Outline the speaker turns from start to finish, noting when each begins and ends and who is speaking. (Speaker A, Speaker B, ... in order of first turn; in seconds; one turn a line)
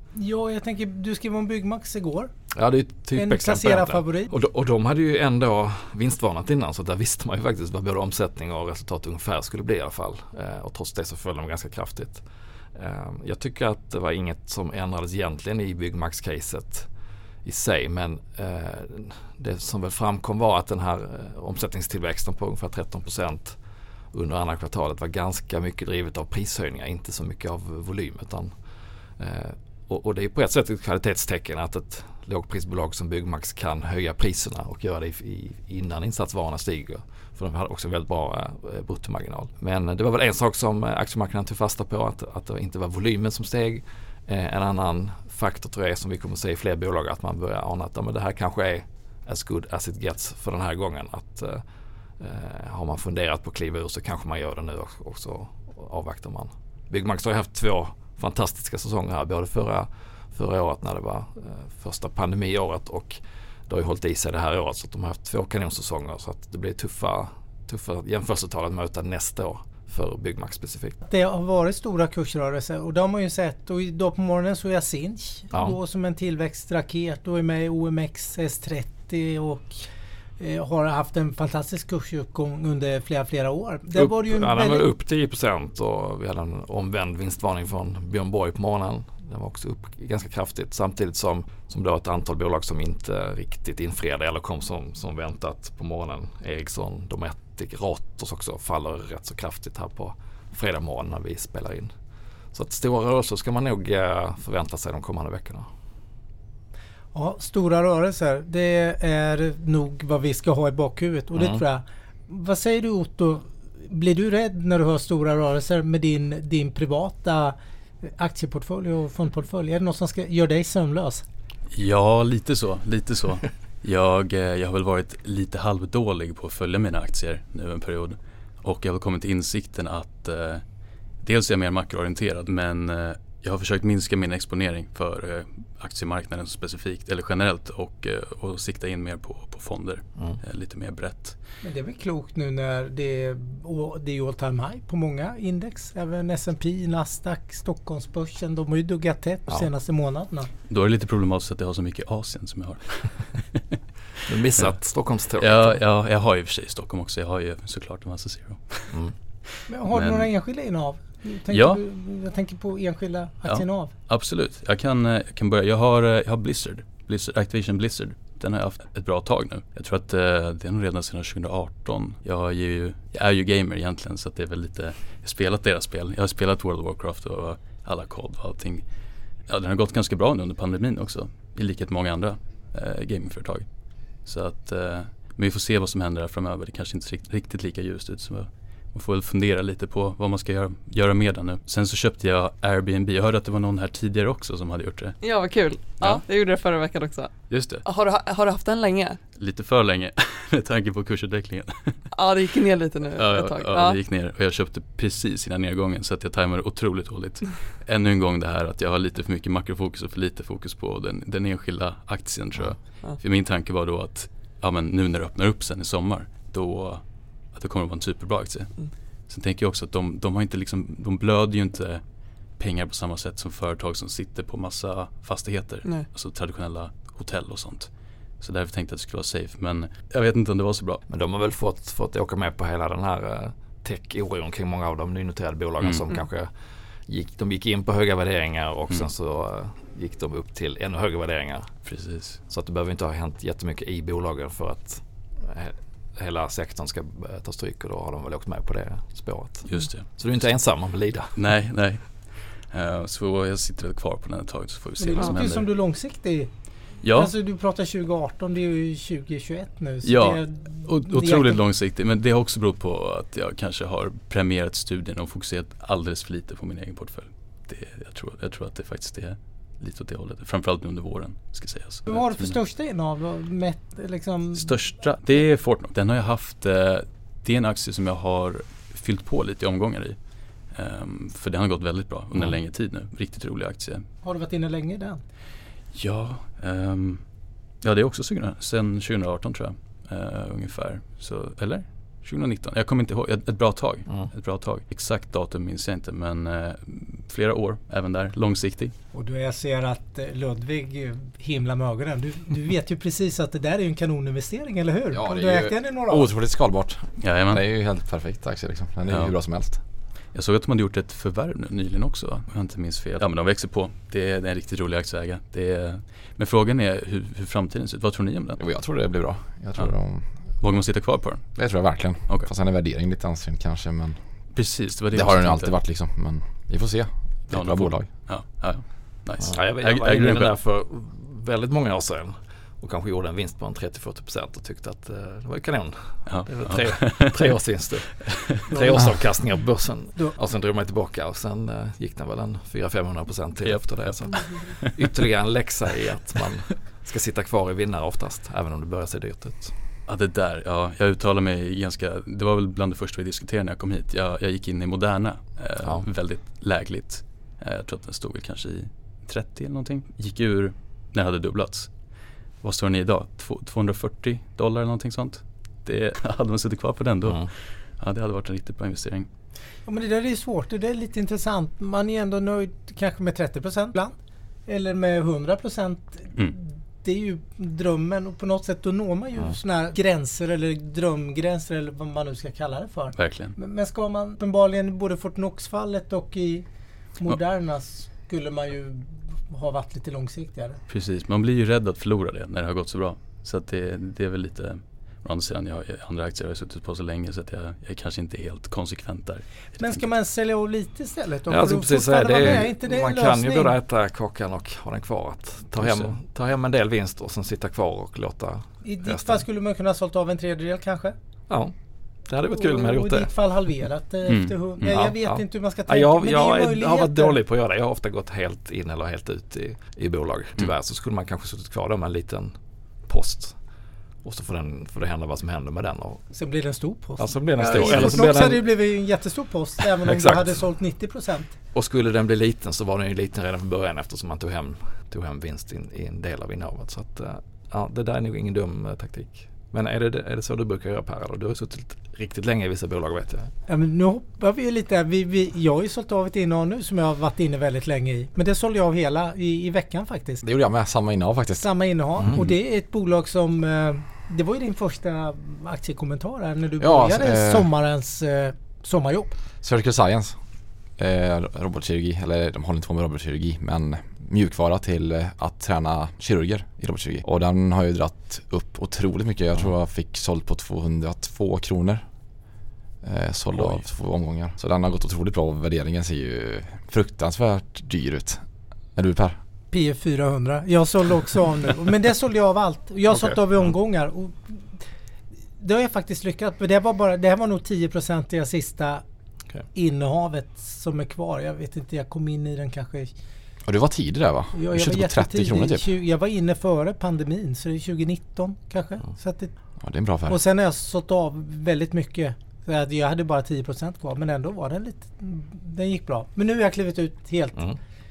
Speaker A: 0.1-2.3
Speaker B: 2.5-16.9
Speaker A: 3.1-4.3
Speaker B: 17.4-51.6
Speaker B: 52.2-71.0
Speaker A: 71.0-79.9
Speaker B: 75.5-75.8
Speaker A: 80.4-84.9
Speaker B: 83.9-101.9
Speaker B: 102.5-105.7
Speaker A: 107.1-121.2
Speaker B: 111.3-111.6
Speaker C: 121.7-130.6
Speaker C: 131.2-141.4
Speaker A: 141.6-150.5
Speaker C: 150.7-153.8
Speaker B: 154.3-155.8
Speaker C: 154.6-159.0
Speaker A: 159.7-163.9
Speaker C: 159.9-160.3
Speaker C: 161.5-161.8
Speaker C: 163.5-178.8
Speaker C: 179.4-196.2
Speaker D: 195.2-199.2
Speaker C: 197.5-197.8
Speaker C: 199.3-202.1
Speaker D: 202.1-204.0
Speaker C: 203.1-231.0
Speaker B: 231.1-251.3
Speaker C: 235.8-236.1
Speaker C: 241.8-242.4
Speaker C: 249.7-250.2
Speaker C: 251.3-255.7
Speaker A: 255.0-261.6
Speaker C: 257.0-257.3
Speaker C: 260.0-272.6
Speaker A: 272.1-274.8
Speaker C: 274.5-284.1
Speaker A: 284.2-285.2
Speaker C: 285.9-287.2
Speaker C: 287.8-298.9
Speaker A: 299.1-306.3
Speaker E: 305.1-309.8
Speaker C: 307.2-307.6
Speaker C: 309.1-309.7
Speaker C: 310.3-318.8
Speaker E: 318.6-320.3
Speaker C: 319.7-322.5
Speaker E: 321.6-328.1
Speaker C: 324.5-325.8
Speaker C: 327.5-330.6
Speaker B: 329.4-349.7
Speaker C: 336.2-338.4
Speaker A: 338.7-339.4
Speaker C: 343.6-345.2
Speaker C: 350.1-362.0
Speaker B: 355.8-356.1
Speaker C: 362.6-369.3
Speaker A: 369.9-386.6
Speaker C: 383.1-383.5
Speaker A: 387.2-390.8
Speaker C: 390.9-400.0
Speaker A: 399.8-403.7
Speaker B: 401.5-409.4
Speaker C: 405.8-406.1
Speaker A: 408.8-411.1
Speaker B: 412.3-413.3
Speaker A: 412.4-417.4
Speaker C: 414.3-414.5
Speaker B: 414.8-423.6
Speaker B: 424.2-426.3
Speaker A: 426.3-431.5
Speaker B: 427.2-428.8
Speaker B: 430.0-430.6
Speaker B: 431.7-443.5
Speaker A: 443.7-450.4
Speaker E: 450.4-451.7
Speaker A: 451.6-459.4
Speaker E: 456.8-457.7
Speaker E: 459.6-460.4
Speaker E: 461.0-472.0
Speaker E: 473.0-479.4
Speaker B: 473.5-473.8
Speaker A: 479.7-484.8
Speaker B: 483.1-483.4
Speaker A: 485.6-489.0
Speaker A: 489.7-493.1
Speaker E: 493.6-495.9
Speaker A: 494.5-499.6
Speaker E: 499.8-500.4
Speaker A: 500.3-507.7